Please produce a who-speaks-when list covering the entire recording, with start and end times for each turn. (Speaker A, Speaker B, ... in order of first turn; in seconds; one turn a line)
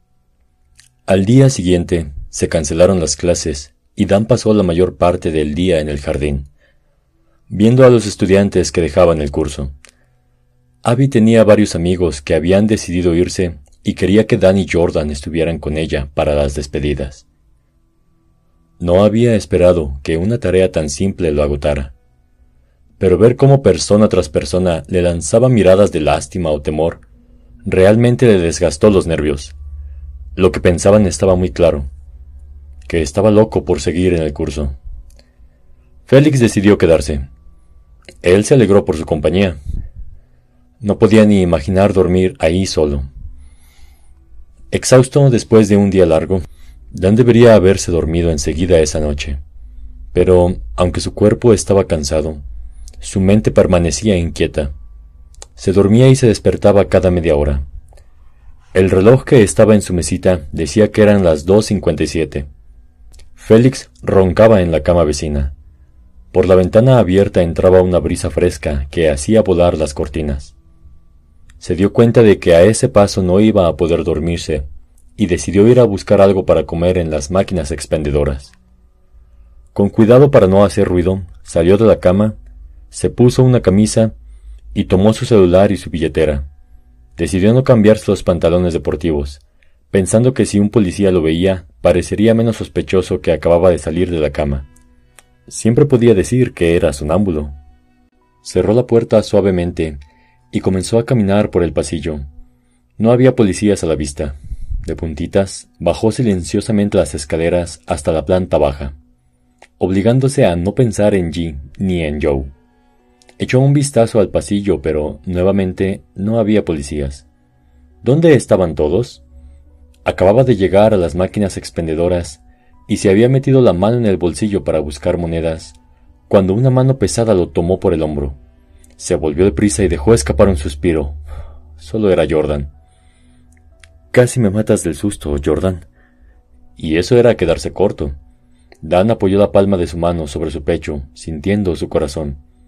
Speaker A: 1.1-6.5
Speaker A: 7.5-9.7
Speaker A: 10.8-17.2
Speaker A: 18.8-21.9
Speaker A: 23.0-27.0
Speaker A: 27.6-29.5
Speaker A: 30.3-31.9
Speaker A: 32.9-34.8
Speaker A: 36.0-37.3
Speaker A: 38.2-39.6
Speaker A: 40.8-43.1
Speaker A: 44.7-49.4
Speaker A: 50.1-52.4
Speaker A: 53.0-54.7
Speaker A: 55.5-57.6
Speaker A: 58.7-62.5
Speaker A: 63.4-65.5
Speaker A: 66.3-70.5
Speaker A: 71.6-74.7
Speaker A: 75.2-78.5
Speaker A: 79.7-82.3
Speaker A: 82.9-84.1
Speaker A: 84.7-86.5
Speaker A: 87.2-94.7
Speaker A: 95.5-97.5
Speaker A: 98.4-100.0
Speaker A: 100.5-102.2
Speaker A: 103.0-109.0
Speaker A: 109.8-112.5
Speaker A: 113.4-117.2
Speaker A: 118.0-119.2
Speaker A: 120.0-125.8
Speaker A: 126.3-128.4
Speaker A: 129.0-131.2
Speaker A: 131.8-132.7
Speaker A: 134.1-135.8
Speaker A: 136.8-138.2
Speaker A: 138.8-142.4